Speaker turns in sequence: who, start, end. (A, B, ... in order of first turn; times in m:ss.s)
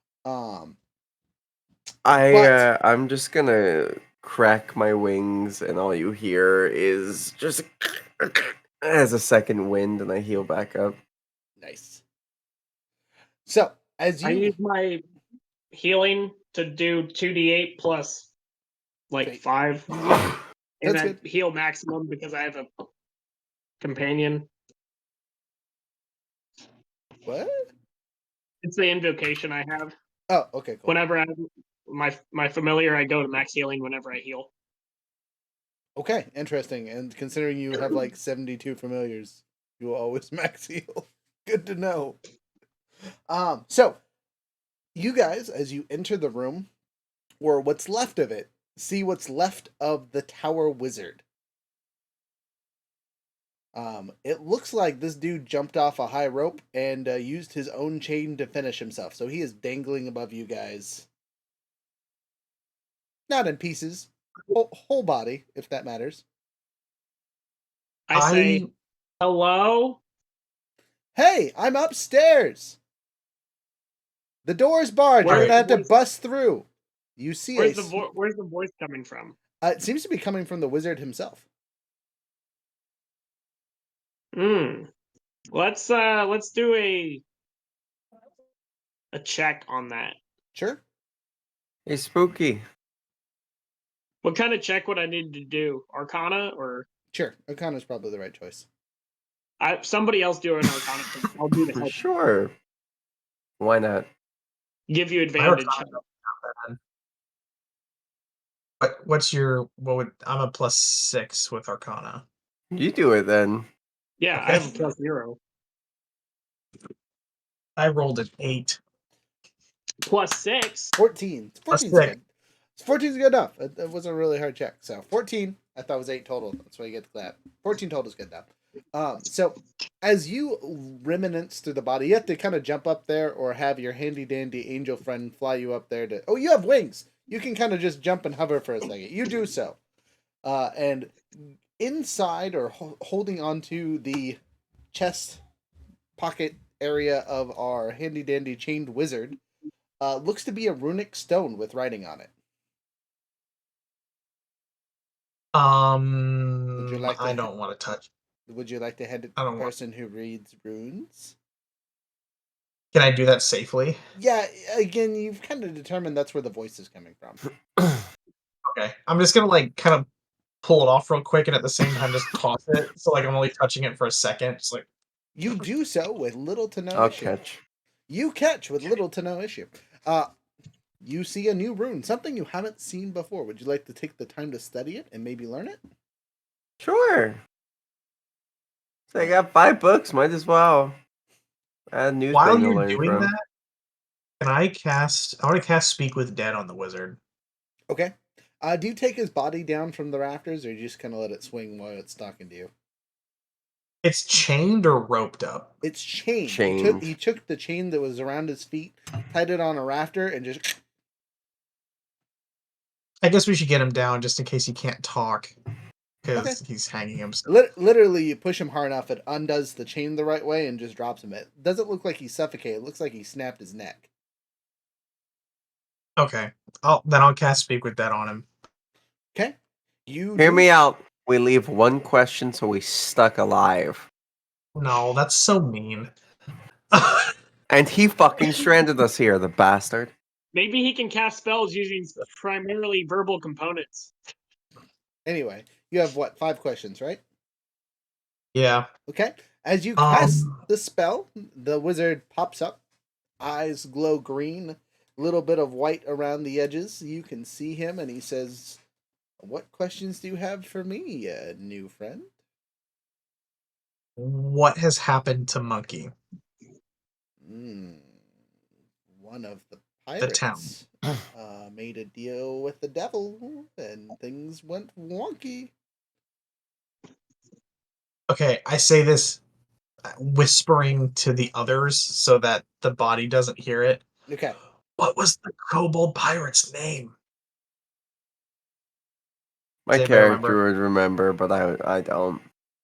0:00.2-0:00.8 A
0:02.0-0:11.0 B
0:02.2-0:02.7 A
0:11.6-0:12.0 A
0:13.4-0:14.5 A
0:14.2-0:15.0 C
0:15.7-0:18.3 C
0:19.1-0:20.3 C
0:20.8-0:22.7 C
0:20.8-0:21.2 A
0:23.8-0:24.5 C
0:27.2-0:27.5 A
0:28.6-0:29.9 C
0:30.3-0:31.0 A
0:30.8-0:34.5 C
0:36.0-0:42.2 A
0:43.3-0:44.0 A
0:44.9-0:46.7 A
0:47.4-0:51.2 A
0:53.7-1:01.1 A
1:03.3-1:06.2 A
1:08.1-1:08.6 C
1:08.1-1:08.7 D
1:09.2-1:10.0 C
1:11.1-1:12.8 A
1:14.4-1:18.0 A
1:15.2-1:16.0 C
1:15.2-1:15.5 D
1:17.5-1:19.4 C
1:19.6-1:21.4 A
1:24.3-1:24.9 C
1:25.5-1:27.2 C
1:29.1-1:30.2 C
1:30.5-1:30.8 A
1:31.8-1:32.6 B
1:34.2-1:36.9 C
1:37.1-1:38.7 A
1:39.6-1:42.0 C
1:41.8-1:42.5 B
1:43.6-1:44.1 B
1:44.9-1:46.0 C
1:45.4-1:46.8 D
1:48.8-1:52.2 D
1:52.7-1:53.7 B
1:54.2-1:55.4 C
1:54.3-1:54.8 D
1:57.8-1:58.8 D
2:00.0-2:01.0 C
2:01.0-2:02.2 A
2:01.7-2:02.1 D
2:02.8-2:19.8 A
2:20.4-2:24.4 A
2:24.9-2:25.4 A
2:26.2-2:29.4 A
2:30.0-2:32.3 A
2:35.5-2:38.1 D
2:36.8-2:37.5 A
2:38.5-2:41.3 A
2:39.4-2:39.7 D
2:42.9-2:44.0 D
2:44.2-2:47.4 A
2:48.7-2:50.1 D
2:50.6-2:54.8 D
2:55.4-2:57.3 A
2:56.9-2:57.6 B
2:58.1-3:00.3 A
3:01.0-3:05.8 A
3:06.8-3:07.4 B
3:09.1-3:11.0 B
3:11.9-3:13.3 B
3:12.3-3:13.4 D
3:14.4-3:17.2 D
3:17.9-3:22.7 A
3:24.0-3:25.7 D
3:25.8-3:30.8 A
3:26.5-3:27.1 B
3:33.2-3:35.5 D
3:36.2-3:37.4 D
3:37.4-3:44.1 A
3:46.2-3:48.5 D
3:49.3-3:50.7 A
3:50.4-3:54.0 B
3:54.7-3:56.1 D
3:56.9-3:57.3 D
3:57.7-4:00.1 B
4:00.5-4:04.1 C
4:05.2-4:07.2 A
4:08.5-4:08.9 D
4:09.1-4:12.8 A
4:10.0-4:10.6 D
4:13.4-4:18.8 A
4:19.4-4:22.3 A
4:24.2-4:26.1 D
4:27.4-4:28.1 A
4:29.1-4:35.7 A
4:30.2-4:30.7 D
4:38.3-4:39.4 D
4:40.1-4:44.0 D
4:44.3-4:44.6 A
4:45.0-4:47.1 D
4:49.8-4:52.4 B
4:49.9-4:50.6 D